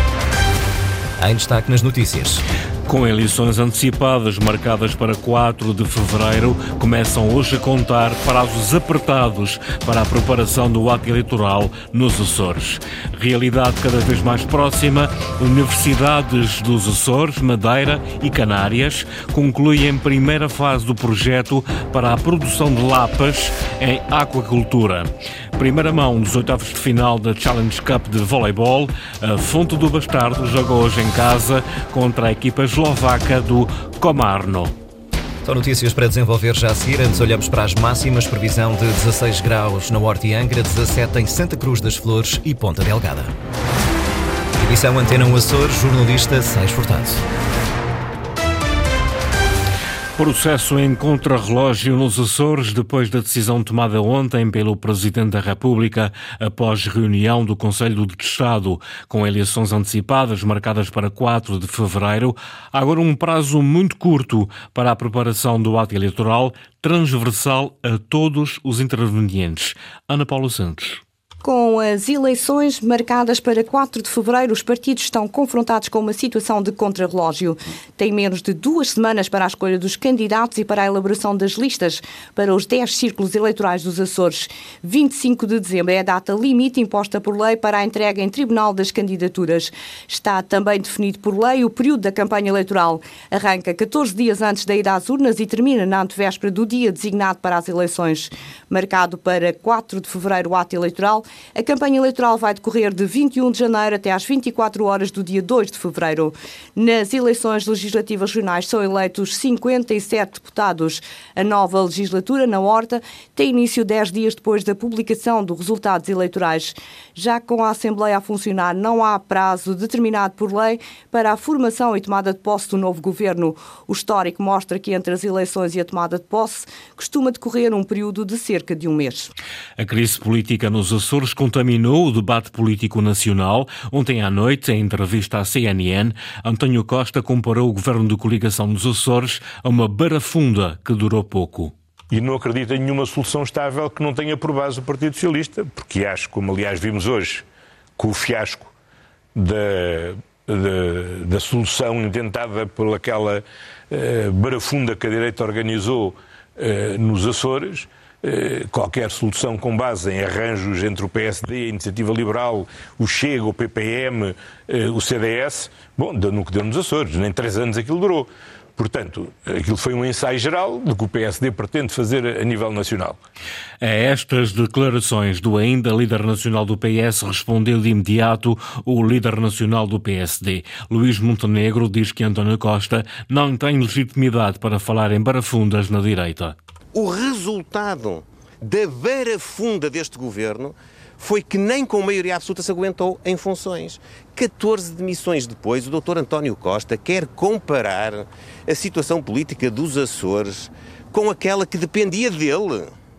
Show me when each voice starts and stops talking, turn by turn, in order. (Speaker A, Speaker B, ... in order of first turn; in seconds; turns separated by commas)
Speaker A: 1.2-2.4, Speaker B: 2.9-34.7, Speaker A: 35.4-43.3, Speaker A: 44.6-47.2, Speaker B: 50.2-71.0, Speaker C: 71.4-129.3, Speaker B: 129.8-141.7, Speaker D: 142.1-147.4, Speaker D: 148.0-148.7, Speaker D: 149.3-173.2, Speaker B: 173.8-186.5, Speaker E: 186.9-202.9